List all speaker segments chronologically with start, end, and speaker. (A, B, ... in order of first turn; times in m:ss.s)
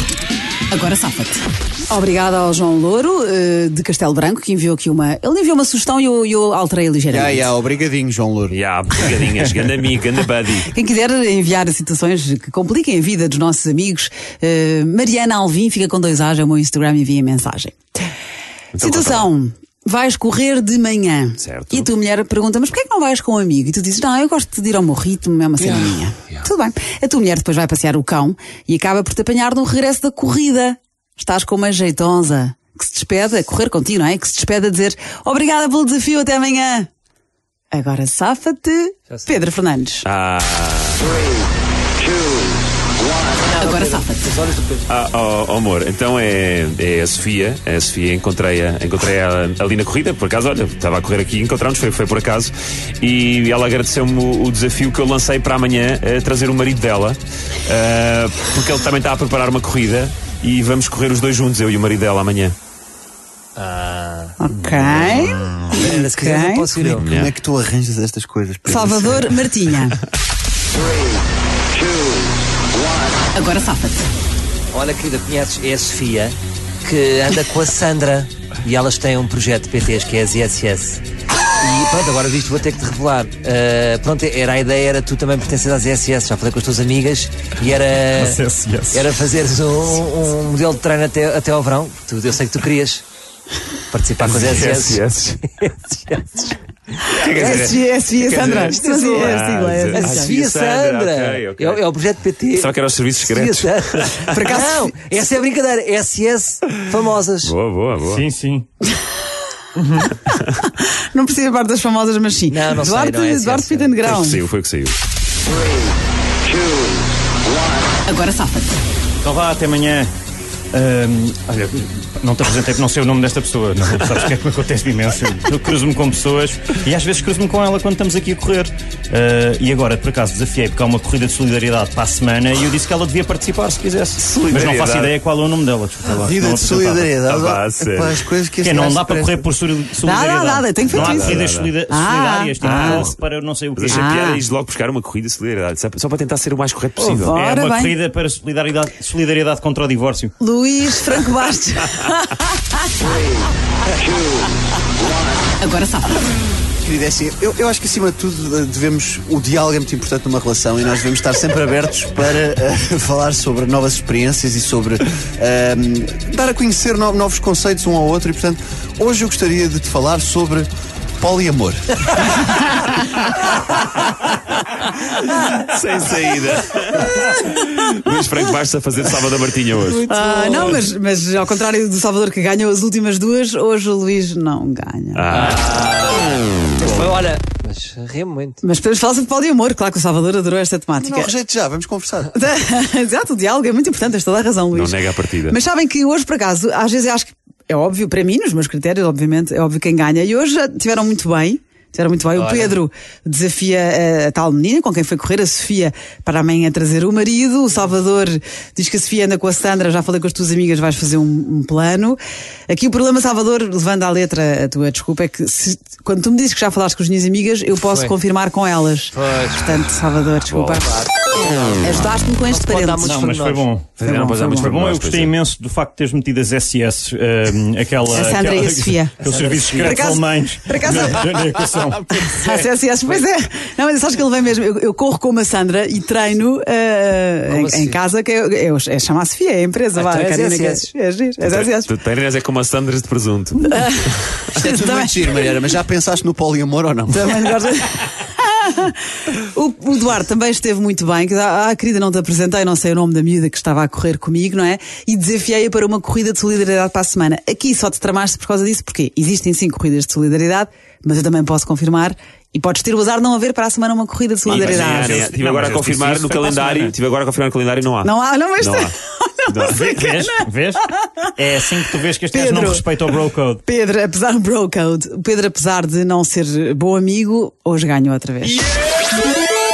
0:00.7-0:07.5 A
0:07.1-0:08.6 B
0:08.5-0:10.7 C
0:10.7-0:17.8 A
0:18.7-0:19.3 C
0:18.8-0:36.9 A
0:21.4-0:21.9 C
0:25.6-0:26.4 C
0:37.7-0:40.1 A
0:40.0-0:41.1 C
0:43.3-0:44.9 D
0:43.6-0:44.3 A
0:44.9-1:02.6 C
1:03.6-1:05.1 D
1:04.4-1:06.7 A
1:05.3-1:05.6 B
1:05.7-1:07.1 D
1:06.9-1:07.3 C
1:07.1-1:09.5 B
1:08.7-1:10.0 A
1:13.4-1:14.1 A
1:14.7-1:21.0 D
1:21.6-1:28.4 D
1:28.1-1:29.2 E
1:28.9-1:33.0 D
1:33.9-1:35.0 D
1:34.2-1:35.4 C
1:35.6-1:36.6 D
1:37.1-1:37.6 C
1:37.1-1:47.5 D
1:37.4-1:40.4 A
1:38.2-1:41.8 C
1:42.5-1:44.3 C
1:44.3-1:44.9 A
1:47.4-1:48.2 C
1:48.0-1:48.7 E
1:50.6-1:54.4 A
1:52.5-1:54.2 D
1:54.0-1:55.0 C
1:58.1-1:58.8 A
1:59.2-2:00.1 E
2:00.7-2:17.2 E
2:14.2-2:15.2 C
2:16.2-2:19.5 B
2:17.2-2:18.2 C
2:18.6-2:24.1 E
2:20.0-2:23.1 A
2:20.8-2:21.7 C
2:23.8-2:27.4 C
2:23.9-2:24.4 A
2:27.0-2:28.0 A
2:27.2-2:30.3 E
2:30.4-2:33.0 A
2:35.6-2:36.2 A
2:36.8-2:52.0 B
2:52.5-2:52.9 A
2:55.2-3:00.1 C
2:59.9-3:00.8 D
3:00.0-3:05.3 A
3:05.2-3:05.8 C
3:05.3-3:08.6 D
3:06.6-3:07.1 C
3:08.6-3:11.3 A
3:11.0-3:12.3 B
3:12.3-3:43.2 A
3:14.7-3:15.6 C
3:22.4-3:22.8 D
3:37.8-3:38.1 D
3:39.1-3:39.8 D
3:40.5-3:40.8 C
3:40.9-3:41.9 D
3:42.5-3:43.6 D
3:43.0-3:52.4 E
3:44.0-3:45.3 C
3:44.0-3:44.7 A
3:48.1-3:49.2 A
3:49.2-3:50.0 D
3:49.8-3:51.5 A
3:52.2-4:02.0 A
3:57.5-3:58.0 D
4:00.0-4:00.9 D
4:01.4-4:04.6 C
4:03.7-4:04.0 A
4:04.5-4:05.5 A
4:04.6-4:07.5 B
4:07.1-4:25.3 A
4:24.4-4:28.9 C
4:24.5-4:27.0 E
4:28.0-4:30.5 A
4:29.5-4:29.8 C
4:29.7-4:33.6 E
4:32.3-4:33.1 A
4:33.6-4:38.7 A